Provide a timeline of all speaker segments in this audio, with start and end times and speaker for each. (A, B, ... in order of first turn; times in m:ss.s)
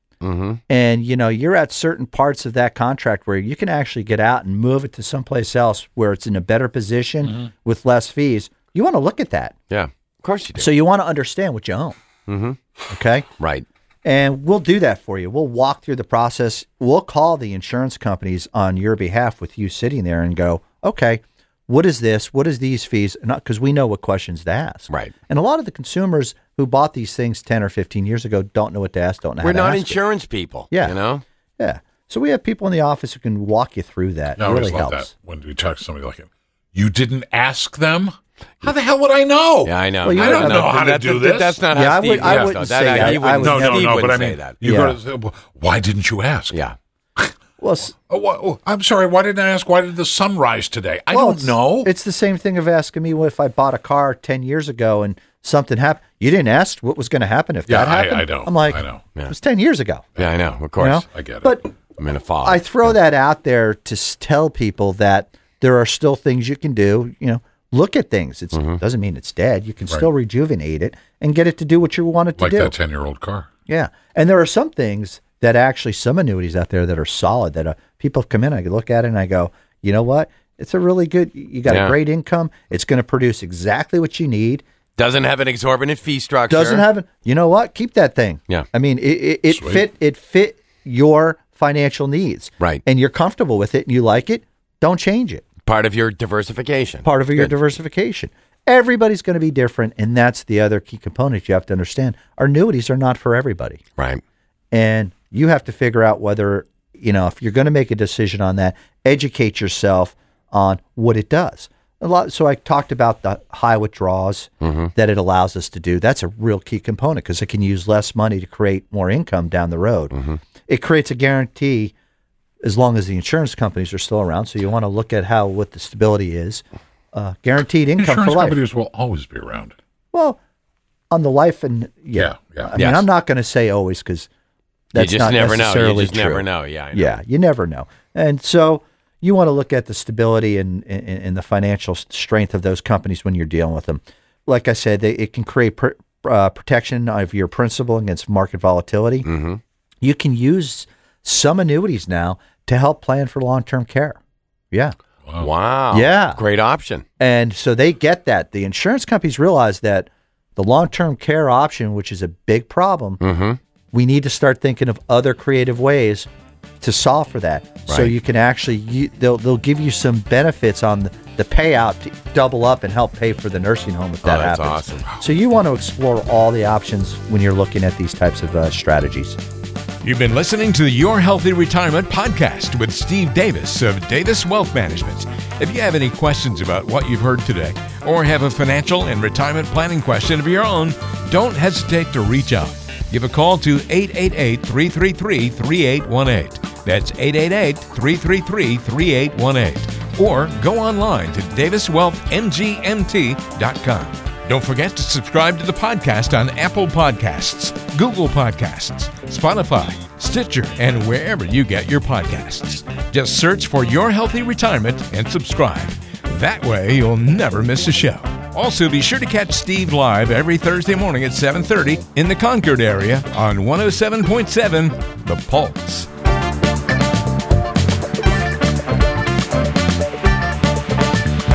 0:00.2-0:00.6 A
0:00.7-0:09.5 B
0:09.7-0:10.7 A
0:10.6-0:12.0 B
0:12.3-0:12.6 A
0:12.9-0:13.3 B
0:13.4-0:13.6 A
0:14.0-0:30.0 B
0:29.4-0:31.2 A
0:30.7-0:31.0 B
0:31.6-0:35.1 B
0:34.4-0:41.6 C
0:39.6-0:44.6 A
0:40.0-0:40.7 B
0:41.7-0:44.0 B
0:42.2-0:46.6 C
0:44.6-0:45.0 B
0:46.5-0:46.8 A
0:47.6-0:47.9 B
0:48.0-0:51.9 C
0:51.1-1:00.0 B
0:57.7-0:59.0 C
1:00.2-1:00.4 C
1:00.2-1:01.0 A
1:00.8-1:01.6 B
1:01.0-1:01.6 C
1:02.0-1:03.0 A
1:02.4-1:12.8 B
1:08.5-1:08.8 A
1:12.4-1:13.5 C
1:13.7-1:24.6 B
1:21.7-1:22.0 A
1:25.0-1:26.9 A
1:26.5-1:35.4 B
1:29.5-1:29.8 C
1:35.6-1:37.6 A
1:37.0-1:43.8 B
1:44.0-1:44.2 A
1:44.7-2:00.1 B
1:54.6-1:54.9 A
2:00.1-2:00.4 A
2:00.7-2:01.9 B
2:02.6-2:08.6 B
2:08.0-2:09.8 C
2:10.1-2:10.4 B
2:11.1-2:14.3 B
2:12.1-2:12.9 C
2:12.8-2:13.1 A
2:14.9-2:29.3 B
2:15.0-2:17.2 A
2:29.2-2:29.6 A
2:30.0-2:34.2 B
2:35.2-2:35.5 C
2:35.4-2:37.0 A
2:35.9-2:36.4 B
2:37.2-2:43.2 B
2:43.2-2:43.6 A
2:43.9-2:46.3 B
2:46.8-2:59.4 B
2:47.9-2:48.1 A
2:54.2-2:55.0 A
3:00.0-3:46.1 D